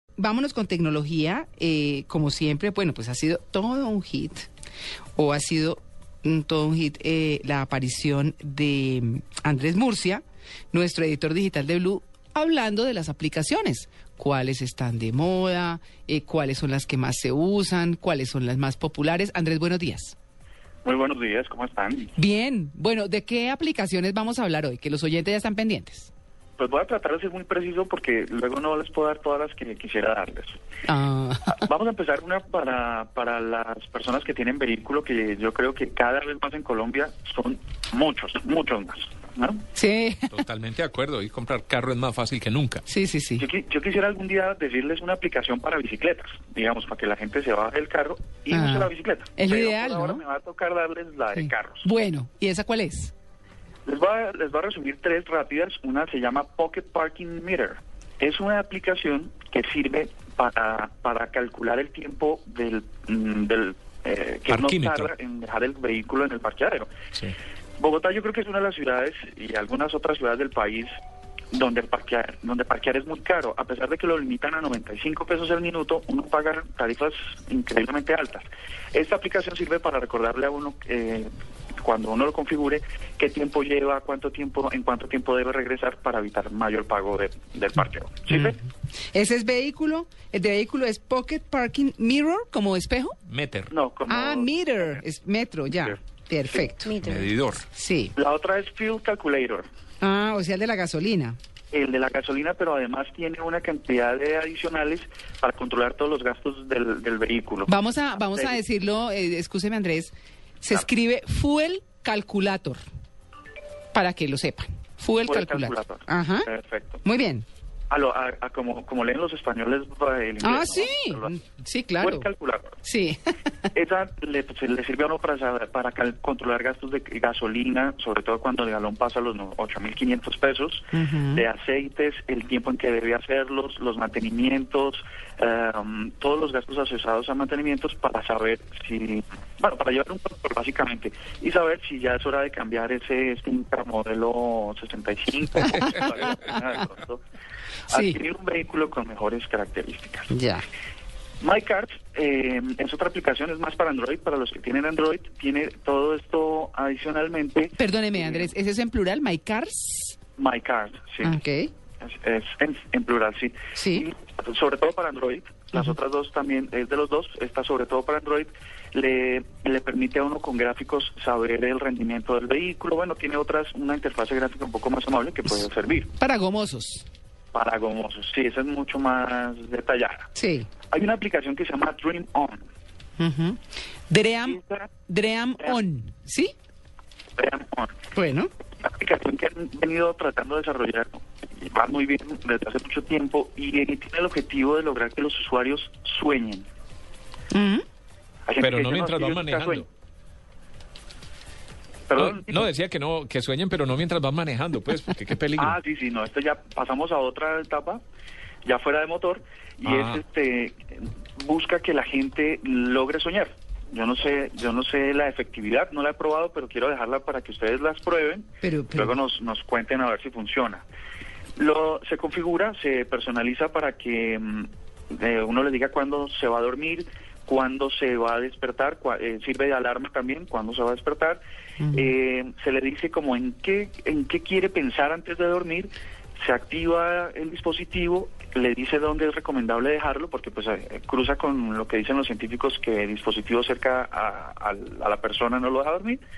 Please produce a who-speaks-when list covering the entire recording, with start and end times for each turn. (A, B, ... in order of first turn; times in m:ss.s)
0:00.2-0:04.5 A
0:05.2-0:20.2 A
0:20.8-0:22.1 B
0:22.2-0:26.1 A
0:26.6-0:30.6 B
0:30.9-0:31.6 A
0:31.5-0:39.7 B
0:39.8-0:40.3 A
0:40.3-0:42.8 C
0:42.9-0:43.5 A
0:43.4-0:51.9 B
0:48.5-0:50.2 A
0:51.4-0:53.1 A
0:53.9-1:06.9 B
1:04.5-1:05.1 C
1:07.8-1:10.9 B
1:11.5-1:21.3 B
1:21.8-1:28.6 B
1:29.1-1:33.2 A
1:33.3-1:33.7 C
1:33.7-1:35.0 B
1:34.1-1:37.0 A
1:35.9-1:36.7 B
1:37.0-1:37.6 C
1:37.8-1:38.1 A
1:38.2-1:39.7 B
1:40.0-1:41.4 A
1:41.7-1:48.6 B
1:47.7-1:52.8 A
1:53.9-1:56.5 A
1:55.2-1:57.0 B
1:57.0-1:57.5 A
1:57.9-2:01.3 B
2:00.4-2:02.3 A
2:02.0-2:02.8 B
2:02.8-2:03.3 A
2:03.7-2:27.2 B
2:10.9-2:11.5 A
2:27.9-2:28.2 A
2:27.9-2:30.3 B
2:30.3-2:30.6 A
2:31.4-2:38.5 B
2:37.8-2:40.2 A
2:40.4-2:41.3 B
2:41.2-2:41.7 A
2:42.0-2:56.1 B
2:43.8-2:44.1 A
2:56.2-2:57.1 A
2:57.5-3:00.3 B
3:00.4-3:00.7 A
3:00.9-3:02.6 B
3:03.2-3:06.5 A
3:04.4-3:04.9 B
3:07.4-3:08.0 B
3:08.2-3:08.5 A
3:08.8-3:16.7 B
3:17.5-3:17.8 A
3:18.5-3:19.9 B
3:18.6-3:19.9 C
3:22.1-3:22.6 B
3:22.2-3:25.8 C
3:25.6-3:28.0 B
3:28.6-3:40.8 B
3:29.8-3:30.2 C
3:38.6-3:39.1 A
3:41.6-3:51.4 B
3:51.8-3:52.1 A
3:51.9-4:06.2 B